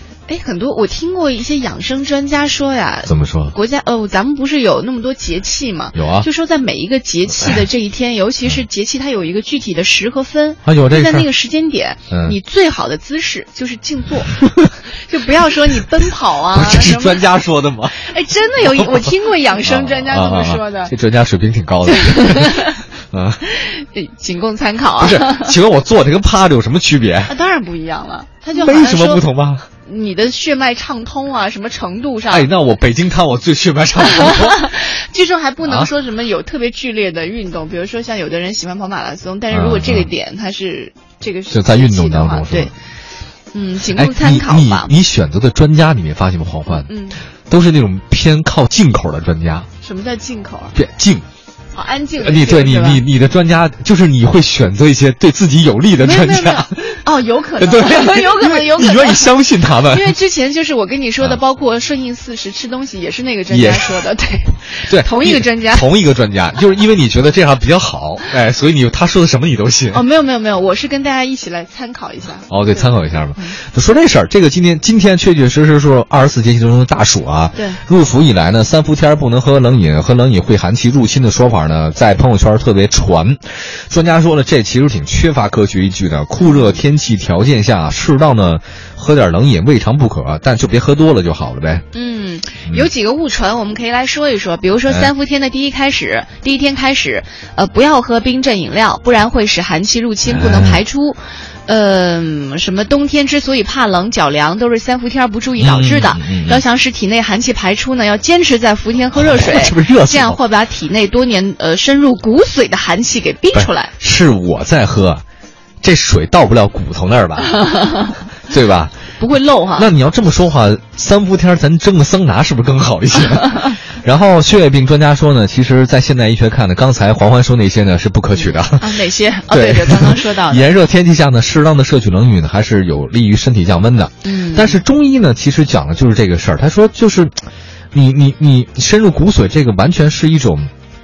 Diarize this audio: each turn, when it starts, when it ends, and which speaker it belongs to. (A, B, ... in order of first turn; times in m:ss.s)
0:00.3-0:17.3 A
0:03.1-0:03.6 B
0:06.0-0:06.3 B
0:10.6-0:11.3 B
0:12.1-0:12.4 B
0:16.5-0:18.0 B
0:17.9-0:20.9 A
0:18.6-0:23.4 B
0:21.9-0:22.8 A
0:23.4-0:25.6 A
0:25.0-0:27.4 B
0:27.3-0:29.2 A
0:28.5-0:29.7 B
0:29.9-0:32.5 A
0:32.3-0:34.7 B
0:34.1-0:42.7 A
0:35.6-0:35.9 B
0:39.5-0:40.1 B
0:41.5-0:42.7 B
0:43.5-0:44.9 A
0:43.9-0:46.9 B
0:46.7-0:47.2 A
0:47.5-0:49.7 B
0:49.8-0:50.8 A
0:50.8-0:51.2 B
0:51.7-0:53.0 A
0:52.2-0:57.0 B
0:56.0-1:05.9 A
0:57.6-1:00.2 B
1:03.5-1:04.0 B
1:04.9-1:10.0 B
1:09.9-1:13.6 A
1:12.5-1:31.8 B
1:17.6-1:17.8 A
1:26.4-1:26.8 A
1:31.9-1:53.9 A
1:40.3-1:40.8 B
1:45.6-1:46.6 B
1:49.2-1:50.4 B
1:53.5-1:55.2 B
1:55.8-1:57.6 B
1:57.5-1:58.2 A
1:58.4-1:58.9 B
1:59.2-1:59.9 A
1:59.8-2:08.9 B
2:08.5-2:10.7 A
2:09.5-2:17.4 B
2:14.2-2:14.8 A
2:17.9-2:20.7 B